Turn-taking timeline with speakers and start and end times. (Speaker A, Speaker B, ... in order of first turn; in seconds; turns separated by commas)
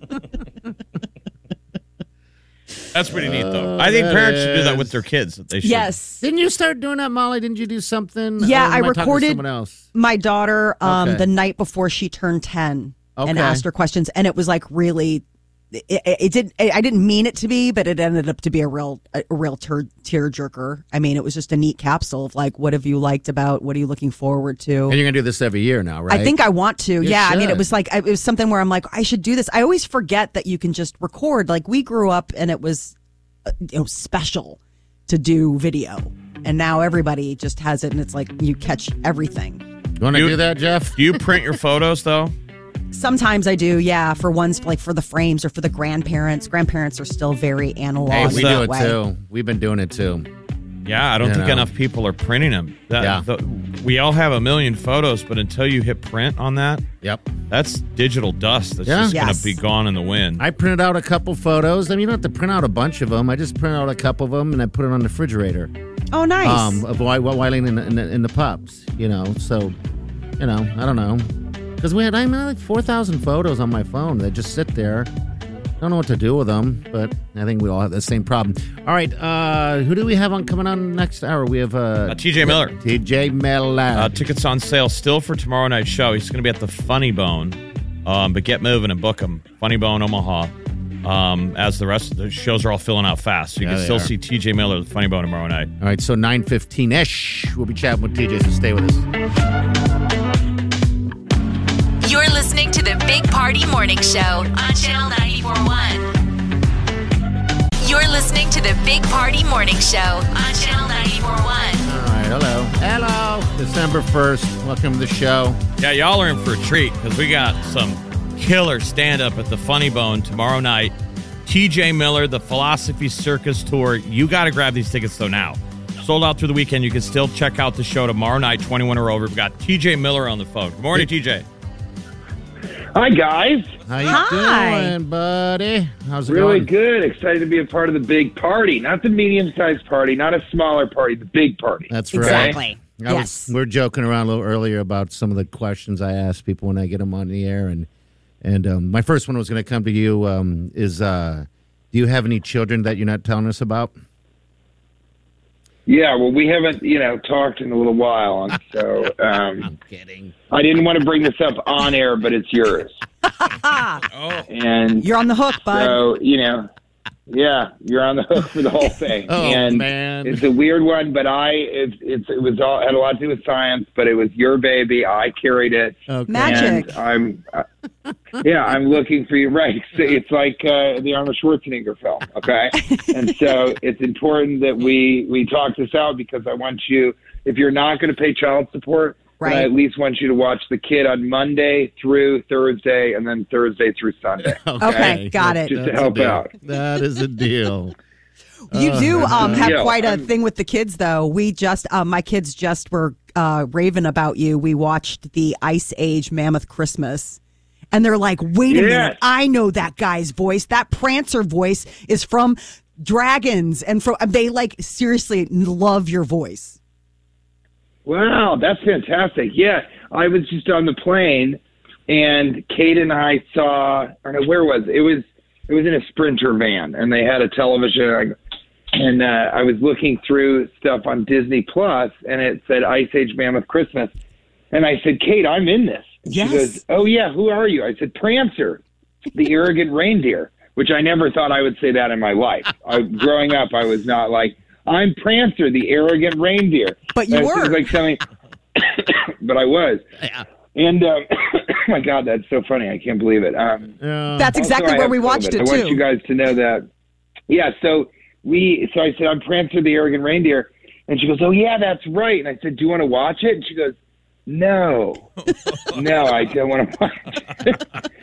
Speaker A: 2.9-5.9, Speaker B: 3.1-5.0, Speaker C: 5.6-6.2, Speaker B: 6.2-9.8, Speaker C: 8.4-9.4, Speaker C: 9.9-25.0, Speaker B: 10.8-11.2, Speaker B: 13.2-13.6, Speaker B: 24.9-26.4, Speaker C: 26.1-33.0, Speaker B: 27.0-27.6, Speaker C: 33.5-39.6, Speaker B: 40.0-41.0, Speaker A: 40.1-40.4, Speaker A: 40.9-42.3, Speaker C: 42.9-49.0, Speaker B: 48.1-50.3, Speaker A: 48.1-48.6, Speaker A: 50.9-56.9, Speaker B: 51.2-51.7, Speaker B: 53.0-53.2, Speaker B: 57.0-57.3, Speaker A: 57.5-60.4, Speaker B: 58.9-59.2, Speaker C: 59.1-59.6, Speaker B: 60.4-65.7, Speaker C: 66.1-66.8, Speaker B: 66.4-69.8, Speaker B: 70.4-75.1, Speaker B: 75.8-84.2, Speaker A: 82.1-82.8, Speaker A: 84.0-90.5, Speaker A: 91.0-95.7, Speaker B: 93.6-94.1, Speaker B: 95.8-99.1, Speaker D: 102.0-106.1, Speaker D: 107.8-111.9, Speaker B: 111.9-115.6, Speaker A: 115.8-120.9, Speaker A: 121.5-131.4, Speaker E: 132.9-133.8, Speaker B: 133.9-136.7, Speaker C: 134.1-134.9, Speaker E: 136.3-142.5, Speaker B: 141.9-147.9, Speaker C: 142.1-143.5, Speaker B: 148.4-153.9, Speaker E: 155.9-159.7, Speaker B: 159.6-160.3, Speaker E: 160.5-163.0, Speaker C: 163.4-164.0, Speaker A: 164.1-164.5, Speaker E: 164.5-165.1, Speaker C: 165.0-166.0, Speaker E: 165.7-166.7, Speaker E: 167.3-177.6, Speaker B: 169.3-170.4, Speaker B: 176.1-176.9, Speaker C: 176.3-176.9, Speaker E: 178.4-195.1, Speaker C: 189.4-189.7, Speaker B: 194.5-197.9, Speaker C: 194.8-195.8, Speaker E: 195.7-196.5, Speaker C: 198.7-207.4, Speaker B: 198.7-199.8, Speaker E: 199.4-200.2, Speaker C: 207.9-216.8, Speaker E: 208.7-209.2, Speaker E: 218.1-228.3, Speaker E: 228.9-234.1, Speaker E: 234.7-238.8, Speaker C: 236.3-236.8, Speaker E: 239.3-248.2, Speaker C: 247.1-247.8, Speaker E: 248.8-250.0, Speaker E: 250.8-253.9, Speaker B: 254.0-254.6, Speaker C: 254.4-256.0, Speaker E: 254.6-256.9, Speaker E: 257.5-263.9, Speaker E: 264.5-265.3, Speaker E: 265.9-267.8